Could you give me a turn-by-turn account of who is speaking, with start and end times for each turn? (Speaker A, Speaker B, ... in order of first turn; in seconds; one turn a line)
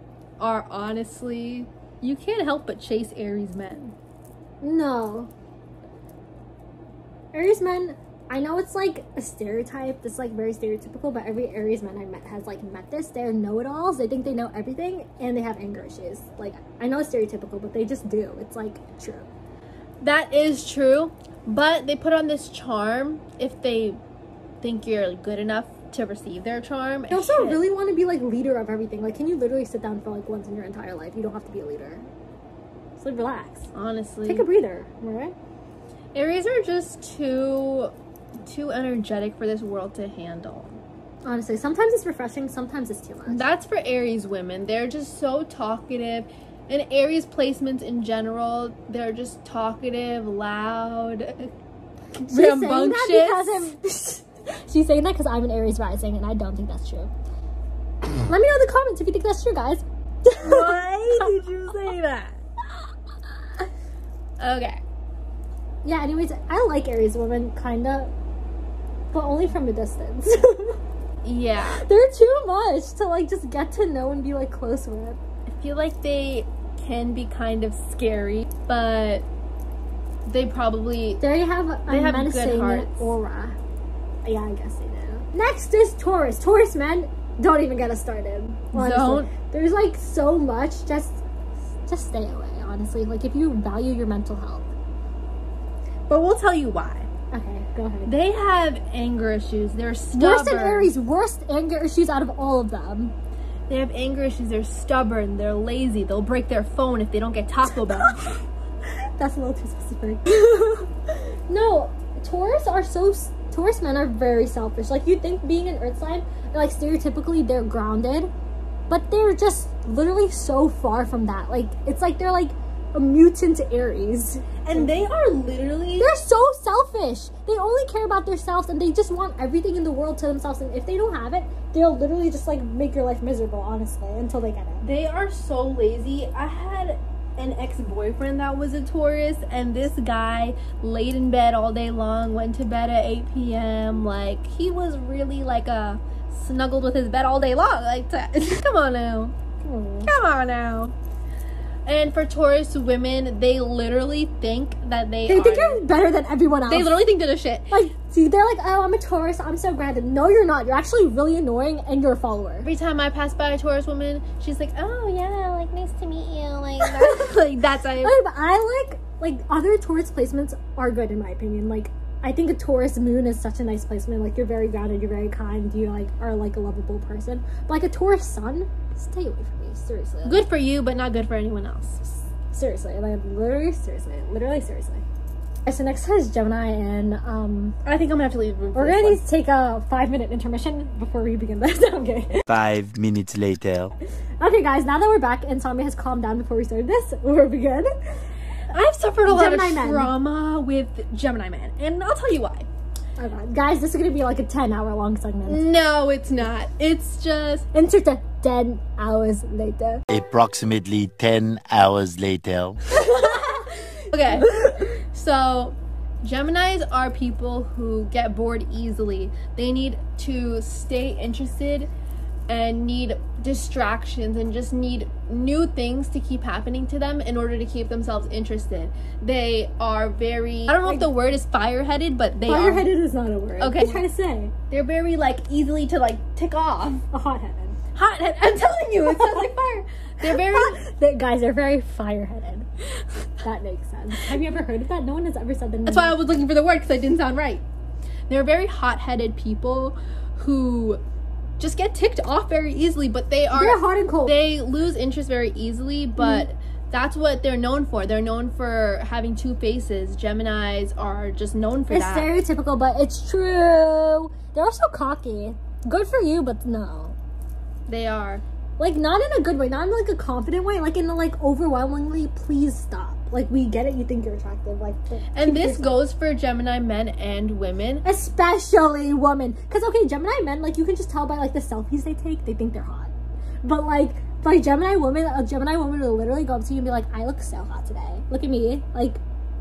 Speaker A: 0.4-3.9
Speaker B: 4.6-5.3
Speaker B: 7.3-19.3
Speaker A: 20.0-24.0
Speaker A: 24.6-27.6
Speaker B: 27.1-32.1
Speaker B: 33.0-33.7
Speaker A: 33.7-34.4
Speaker B: 34.2-35.3
Speaker A: 36.1-37.9
Speaker A: 38.4-40.8
Speaker B: 41.2-43.4
Speaker A: 43.3-51.5
Speaker A: 52.2-53.7
Speaker B: 52.3-57.1
Speaker B: 58.2-61.3
Speaker A: 60.4-62.4
Speaker A: 64.4-64.8
Speaker B: 65.8-68.1
Speaker B: 69.1-70.8
Speaker A: 71.2-71.8
Speaker B: 71.6-75.2
Speaker A: 75.5-79.3
Speaker A: 80.2-81.2
Speaker B: 81.2-83.6
Speaker A: 81.9-83.1
Speaker B: 84.2-91.2
Speaker A: 88.7-89.3
Speaker B: 91.8-94.7
Speaker A: 96.1-97.1
Speaker B: 97.3-98.1
Speaker A: 98.1-100.9
Speaker B: 100.1-103.1
Speaker A: 103.7-108.4
Speaker B: 108.0-108.4
Speaker B: 109.2-118.3
Speaker B: 118.9-124.9
Speaker A: 124.6-126.1
Speaker B: 126.0-134.8
Speaker A: 134.8-149.3
Speaker B: 149.6-150.1
Speaker A: 150.0-150.9
Speaker A: 151.8-155.8
Speaker B: 155.3-157.0
Speaker A: 156.7-157.8
Speaker B: 157.7-162.7
Speaker A: 162.6-168.1
Speaker B: 166.8-167.3
Speaker B: 168.0-180.4
Speaker A: 180.2-182.0
Speaker B: 182.5-185.0
Speaker B: 185.7-187.8
Speaker A: 187.8-189.2
Speaker B: 188.7-192.4
Speaker C: 192.5-193.9
Speaker B: 194.4-197.9
Speaker A: 198.7-202.7
Speaker B: 199.2-200.1
Speaker B: 203.2-205.6
Speaker A: 205.5-207.7
Speaker B: 207.7-210.0
Speaker C: 210.1-212.8
Speaker B: 212.9-214.9
Speaker A: 214.1-221.9
Speaker A: 222.5-232.9
Speaker B: 230.8-231.1
Speaker B: 232.5-234.5
Speaker A: 233.6-234.1
Speaker A: 234.7-237.0
Speaker B: 237.1-237.8
Speaker A: 237.9-240.8
Speaker B: 239.1-239.3
Speaker B: 240.2-242.7
Speaker B: 243.4-246.4
Speaker A: 245.8-247.6
Speaker A: 248.3-251.0
Speaker A: 251.6-262.3
Speaker B: 253.5-254.3
Speaker B: 256.2-256.5
Speaker B: 261.9-267.1
Speaker A: 267.9-268.4
Speaker B: 268.8-276.0
Speaker A: 275.3-278.0
Speaker B: 278.0-283.1
Speaker B: 283.6-289.2